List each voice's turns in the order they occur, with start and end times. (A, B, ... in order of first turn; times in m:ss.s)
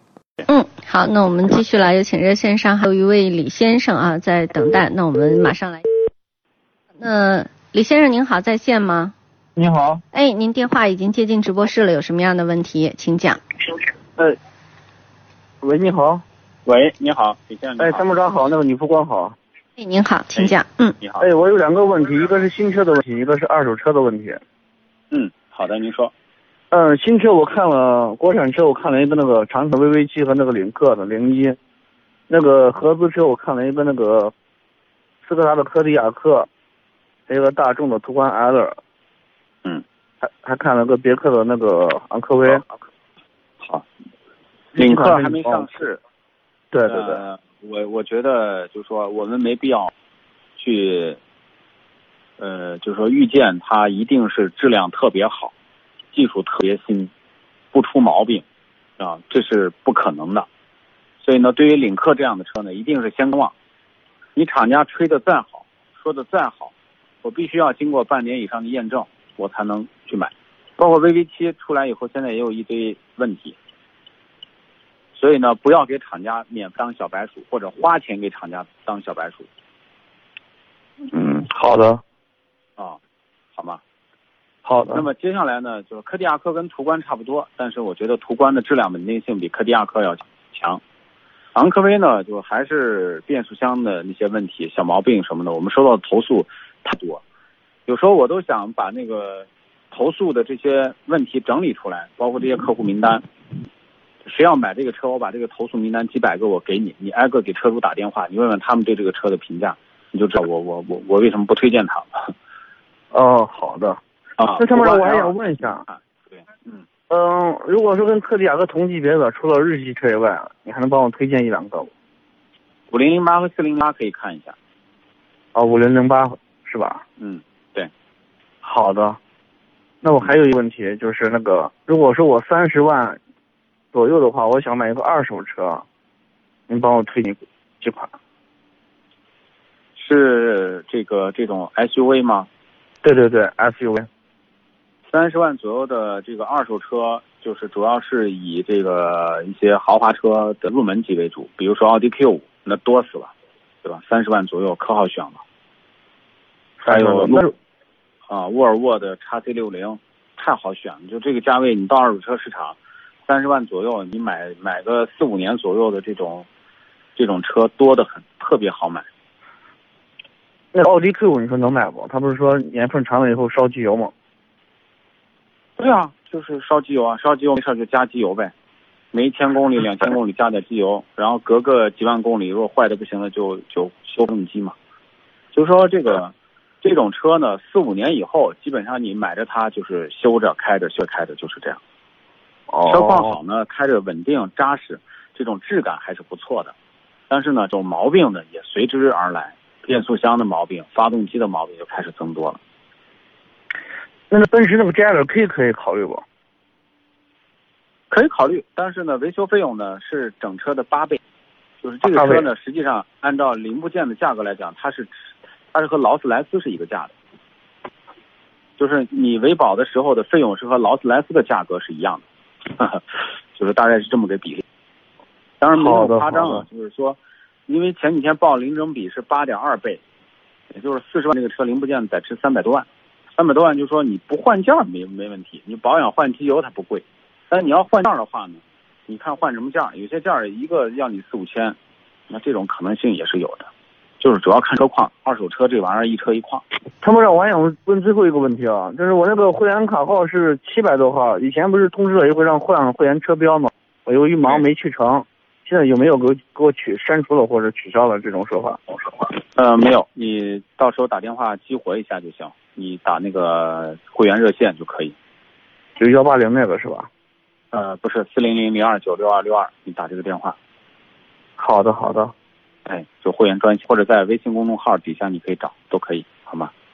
0:00.5-0:05.8 A
0:07.0-0:09.1 A
0:09.6-0:10.0 B
0:10.1-0:13.4 A
0:15.6-0:16.2 B
0:16.6-0:18.2 C
0:17.8-0:19.4 B
0:19.8-0:21.0 A
0:20.3-0:21.3 C
0:21.2-0:24.4 B
0:25.1-0:26.1 C
0:26.7-0:31.6 B
0:32.3-0:34.3 B
0:35.2-0:36.5 B
0:37.3-0:38.8 B
0:40.2-0:42.6 B
0:44.8-0:45.7 B
0:44.8-0:46.0 C
0:46.7-0:47.2 B
0:46.9-0:49.9 C
0:50.6-0:51.2 C
0:52.4-0:55.5 C
0:56.1-0:57.1 C
0:57.7-0:58.4 C
0:59.0-1:00.5 C
1:01.2-1:03.5 C
1:04.4-1:13.6 C
1:15.1-1:19.5 C
1:21.1-1:22.0 B
1:23.6-1:23.8 C
1:24.6-1:25.1 B
1:24.9-1:30.8 C
1:31.6-1:37.2 C
1:37.9-1:43.3 C
1:44.2-1:52.3 C
1:53.1-1:54.0 B
1:54.4-1:56.8 C
1:54.6-1:55.8 B
1:57.1-2:01.9 B
2:02.9-2:04.6 C
2:05.5-2:07.0 B
2:07.2-2:07.9 C
2:08.6-2:09.2 B
2:10.0-2:13.2 B
2:13.9-2:15.8 B
2:16.7-2:18.1 B
2:20.0-2:22.5 C
2:23.0-2:24.1 B
2:25.1-2:35.4 C
2:36.8-2:37.5 B
2:36.9-2:37.4 C
2:38.3-2:46.5 C
2:47.2-2:49.1 C
2:50.7-2:54.1 B
2:55.8-2:58.5 C
2:59.1-3:04.8 C
3:05.5-3:11.8 C
3:12.7-3:13.3 B
3:12.8-3:16.7 C
3:17.3-3:22.6 C
3:24.3-3:26.2 B
3:28.1-3:31.2 C
3:31.8-3:37.1 C
3:32.1-3:32.5 B
3:38.8-3:44.6 C
3:45.6-3:50.0 C
3:45.7-3:46.6 B
3:50.7-4:01.8 C
4:02.3-4:06.6 C
4:07.0-4:18.9 B
4:19.5-4:25.2 C
4:26.0-4:27.1 B
4:27.7-4:30.6 C
4:31.6-4:32.3 B
4:32.9-4:36.7 C